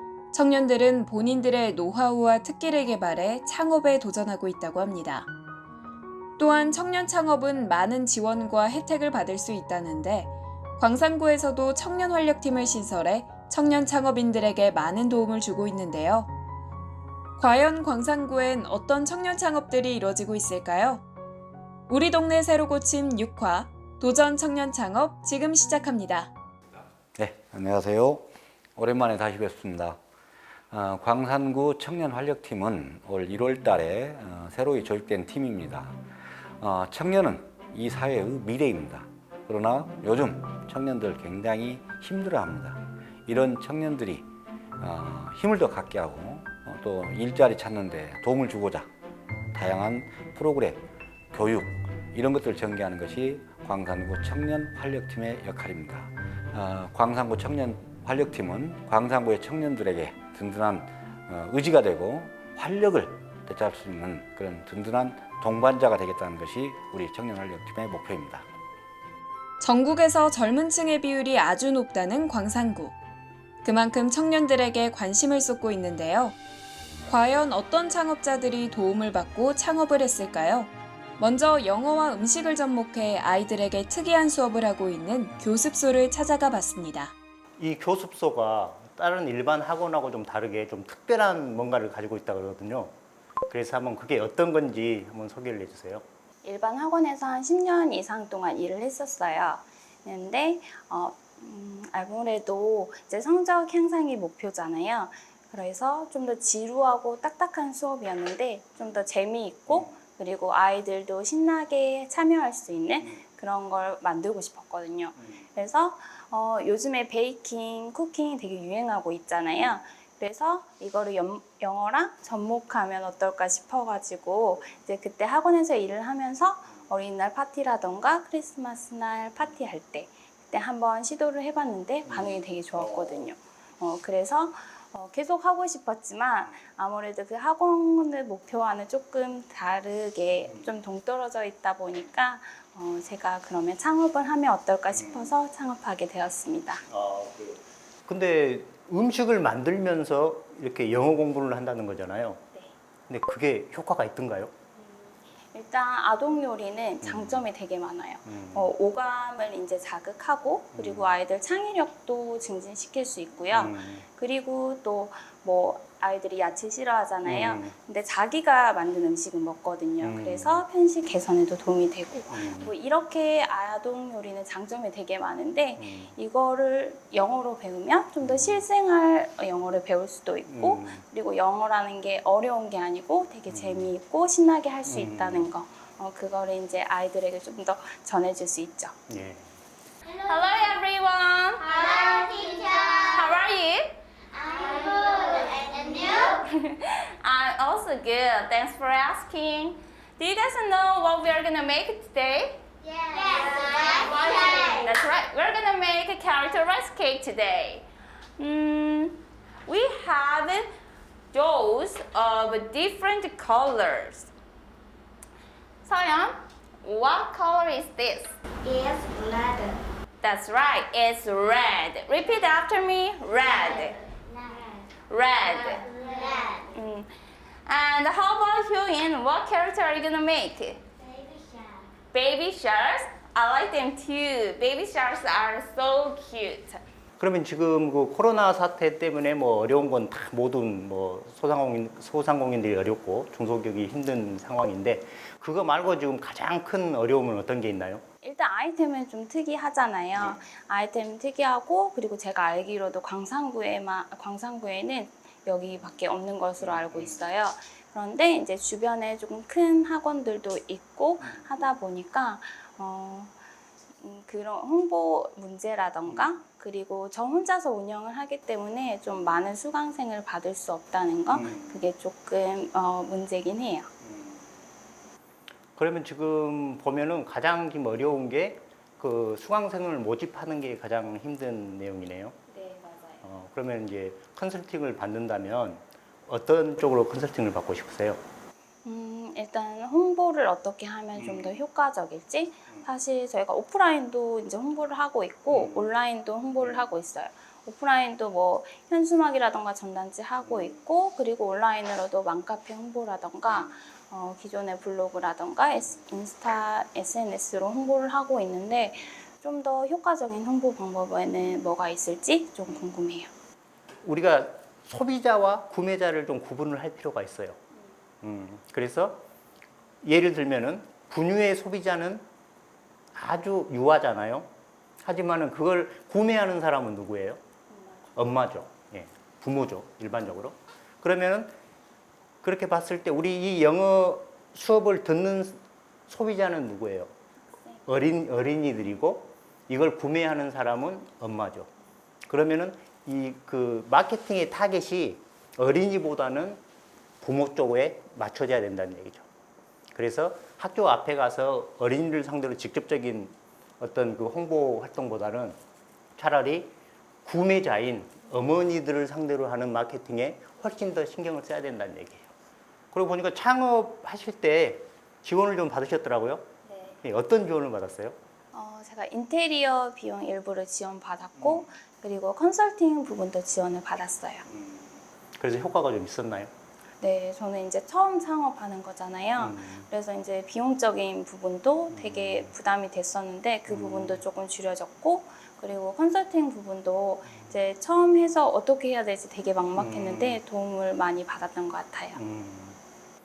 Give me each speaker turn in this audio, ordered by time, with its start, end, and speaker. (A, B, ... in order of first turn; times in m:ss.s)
0:00.3-0:05.3 A
0:06.4-0:16.3 A
0:17.4-0:21.0 A
0:21.9-0:26.3 A
0:27.2-0:30.0 B
0:30.7-0:36.0 B
0:36.6-0:44.3 B
0:44.8-0:48.9 B
0:49.5-1:08.4 B
1:09.6-1:12.9 A
1:13.6-1:16.4 A
1:17.1-1:27.1 A
1:27.6-1:32.9 C
1:33.5-1:36.0 C
1:36.4-2:26.8 D
1:49.7-1:50.0 C
1:55.2-1:55.4 C
2:12.0-2:13.2 C
2:20.4-2:20.7 C
2:24.9-2:25.3 C
2:26.9-2:32.4 C
2:33.1-2:34.5 C
2:34.8-3:09.0 D
2:37.0-2:37.4 C
2:38.2-2:38.7 C
2:40.7-2:41.1 C
2:43.5-2:44.0 C
2:47.2-2:47.7 C
2:50.0-2:50.6 C
2:52.3-2:52.7 C
2:55.8-2:56.1 C
2:58.2-2:58.6 C
3:00.5-3:01.0 C
3:03.5-3:03.9 C
3:04.8-3:05.5 C
3:09.1-3:09.4 C
3:10.1-3:10.7 E
3:10.2-3:11.7 F
3:11.6-3:13.4 E
3:13.0-3:14.0 F
3:14.3-3:16.4 E
3:16.9-3:22.6 F
3:22.8-3:24.9 E
3:23.3-3:27.8 F
3:28.4-3:30.7 F
3:31.3-3:34.3 F
3:35.8-3:38.4 F
3:38.6-3:39.8 E
3:40.2-3:44.0 F
3:43.5-3:44.8 E
3:45.0-3:45.9 F
3:45.4-3:46.7 E
3:46.7-3:47.1 F
3:47.6-3:50.8 F
3:51.0-3:51.8 E
3:52.1-3:56.8 F
3:57.2-4:08.0 C
4:08.2-4:23.3 D
4:16.6-4:17.2 C
4:24.0-4:33.9 D
4:26.1-4:26.4 C
4:31.3-4:31.7 C
4:34.0-4:34.3 C
4:35.8-4:42.4 C
4:42.5-4:43.2 D
4:43.2-4:48.2 C
4:48.8-5:13.3 D
4:51.2-4:51.6 C
4:55.5-4:55.9 C
5:00.4-5:00.8 C
5:14.0-5:17.6 C
5:18.2-5:19.2 C
5:20.0-5:22.2 C
5:23.1-5:27.4 C
5:27.7-5:28.1 D
5:28.1-5:31.5 C
5:32.4-5:37.1 C
5:37.8-5:41.7 C
5:42.3-5:46.6 C
5:47.2-5:49.2 C
5:49.9-5:55.6 C
5:56.2-5:56.7 C
5:57.2-6:02.3 C
6:02.9-6:06.5 C
6:06.6-6:07.0 D
6:07.0-6:08.2 C
6:08.5-6:14.4 D
6:11.4-6:11.7 C
6:14.5-6:16.5 C
6:17.0-6:32.2 D
6:19.4-6:19.9 C
6:21.9-6:22.5 C
6:23.7-6:24.2 C
6:29.8-6:30.4 C
6:32.1-6:32.8 C